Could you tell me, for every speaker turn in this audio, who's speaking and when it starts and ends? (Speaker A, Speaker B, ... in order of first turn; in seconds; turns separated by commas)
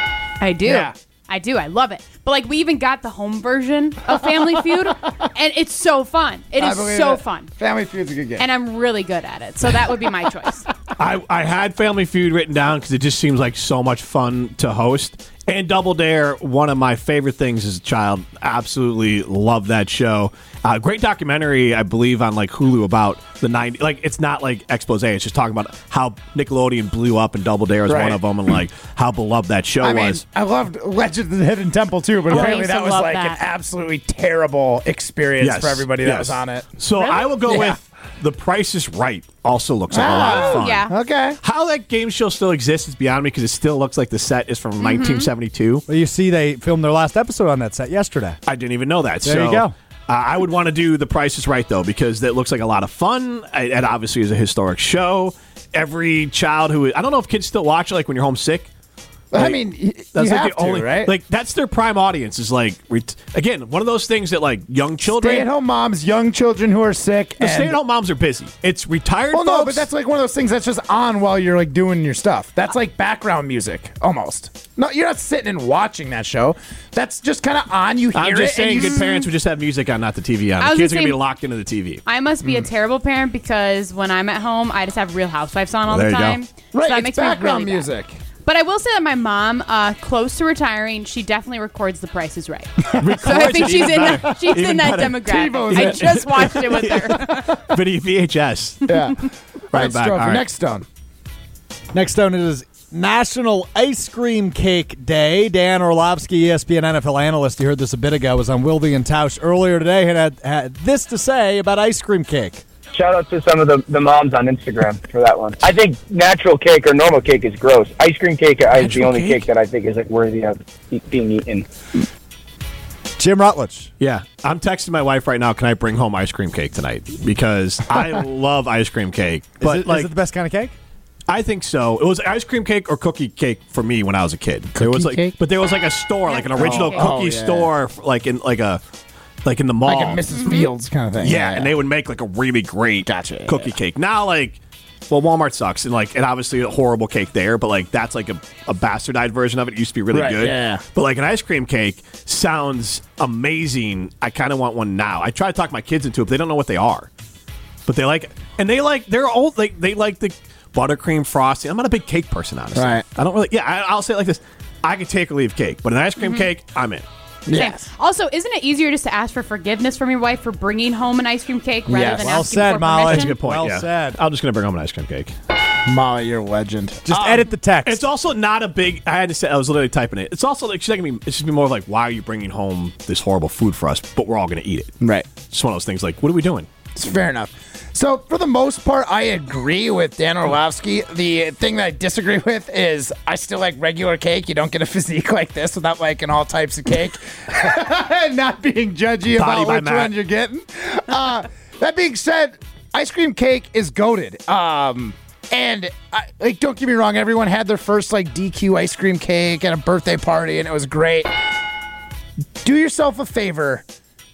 Speaker A: 0.4-7.5, Speaker B: 0.7-0.9, Speaker B: 6.6-8.4, Speaker A: 8.4-10.7, Speaker C: 11.0-30.2, Speaker B: 27.9-28.2, Speaker B: 29.8-37.8, Speaker A: 32.3-33.4, Speaker C: 35.4-40.9, Speaker B: 39.9-41.4, Speaker A: 40.1-40.9, Speaker C: 41.4-45.9, Speaker A: 44.8-45.3, Speaker D: 45.9-48.4, Speaker C: 48.5-58.7, Speaker D: 49.2-49.7, Speaker B: 59.3-61.1, Speaker C: 59.3-59.6, Speaker C: 60.1-65.5, Speaker B: 65.1-67.8, Speaker C: 67.4-69.9, Speaker B: 69.3-79.2, Speaker C: 78.1-82.0, Speaker A: 80.6-81.2, Speaker A: 82.0-87.9, Speaker C: 85.9-86.4, Speaker B: 86.7-88.2, Speaker A: 88.5-97.5, Speaker C: 93.0-99.0, Speaker B: 95.2-96.7, Speaker B: 98.9-100.9, Speaker C: 99.7-100.5, Speaker D: 101.9-112.6, Speaker E: 112.9-121.7, Speaker C: 118.7-119.5, Speaker D: 123.2-123.9, Speaker C: 124.0-130.1, Speaker D: 129.6-130.8, Speaker C: 131.3-138.8, Speaker B: 134.8-135.3, Speaker A: 136.3-137.1, Speaker B: 136.6-137.7, Speaker C: 139.4-140.2, Speaker B: 139.8-141.7, Speaker A: 140.4-140.7, Speaker C: 141.2-157.1, Speaker B: 143.1-143.7, Speaker B: 150.1-150.8, Speaker C: 157.9-167.1, Speaker B: 162.8-163.0, Speaker B: 167.5-167.9, Speaker A: 167.5-173.4, Speaker B: 171.9-172.3, Speaker D: 172.1-174.2, Speaker C: 173.0-175.3, Speaker B: 175.9-177.5, Speaker D: 177.1-178.1, Speaker C: 177.8-185.0, Speaker B: 185.0-185.3, Speaker C: 185.5-186.7, Speaker B: 186.9-211.3, Speaker C: 199.3-200.1, Speaker B: 212.6-213.8